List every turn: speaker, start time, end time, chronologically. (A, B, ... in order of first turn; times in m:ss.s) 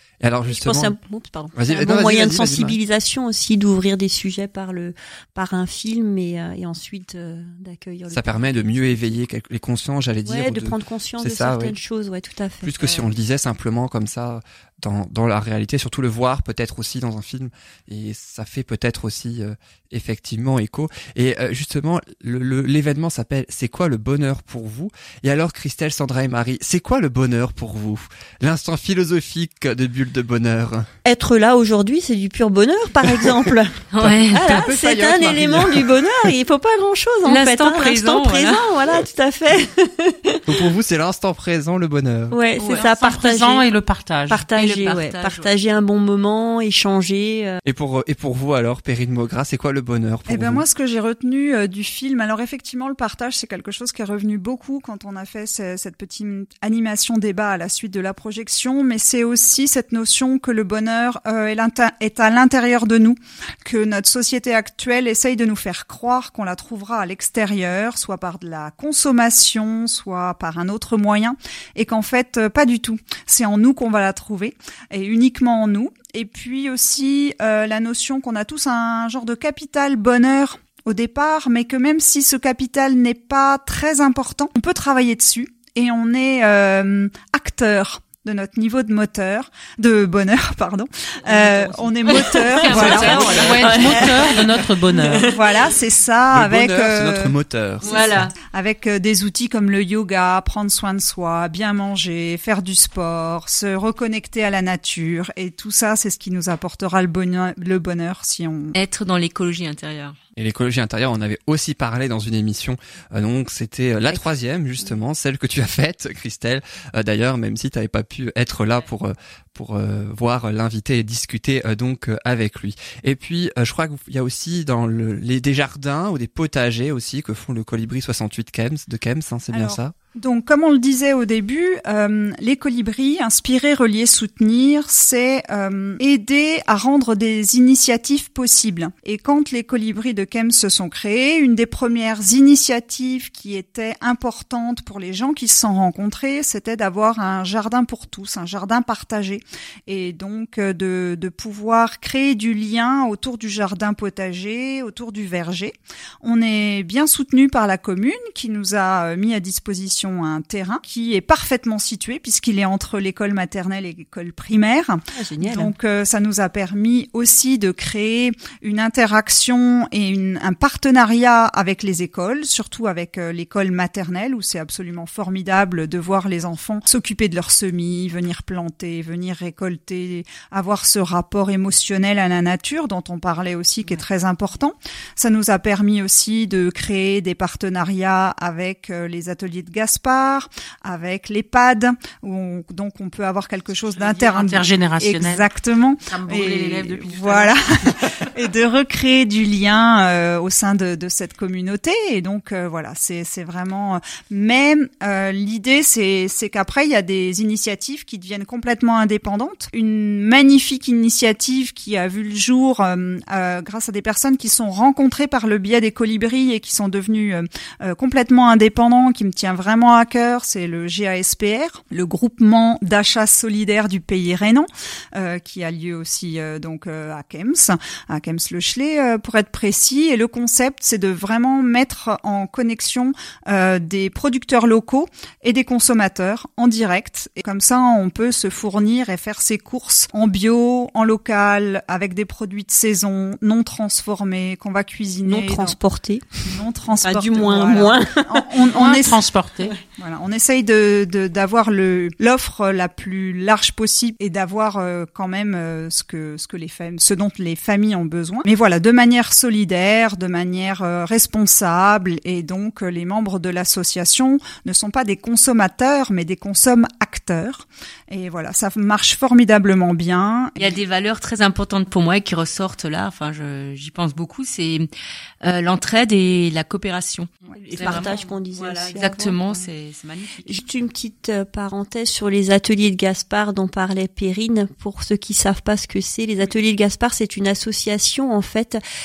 0:00.2-0:00.9 A
0:00.5-0:09.0 B
0:01.6-0:02.8 A
0:08.1-0:11.8 A
0:10.2-0:13.1 B
0:12.6-0:30.9 A
0:31.0-0:40.6 B
0:33.0-0:33.4 A
0:33.9-0:34.5 C
0:34.0-0:36.3 A
0:37.2-0:38.7 C
0:40.4-0:42.4 A
0:42.3-0:43.6 B
0:42.6-0:42.9 C
0:42.6-0:44.5 D
0:44.3-0:47.6 B
0:44.5-0:45.5 C
0:47.6-0:50.6 A
0:50.3-1:33.7 E
1:31.3-1:35.7 B
1:32.6-1:34.1 C
1:32.7-1:35.3 D
1:35.2-1:37.3 E
1:36.3-1:37.9 A
1:37.8-1:38.3 C
1:37.8-1:38.1 B
1:38.4-1:48.8 E
1:48.7-1:50.2 C
1:50.4-2:09.9 A
2:09.5-4:05.8 E
2:45.4-2:45.7 B
3:13.9-3:15.5 D
3:16.0-3:17.5 D
4:05.2-4:06.5 B
4:06.5-4:09.2 E
4:07.0-4:09.0 B
4:08.7-4:09.7 D
4:10.0-4:30.7 E
4:30.6-4:34.9 C
4:35.4-4:40.5 C
4:37.6-4:38.3 D
4:37.8-4:39.4 B
4:40.4-4:48.8 B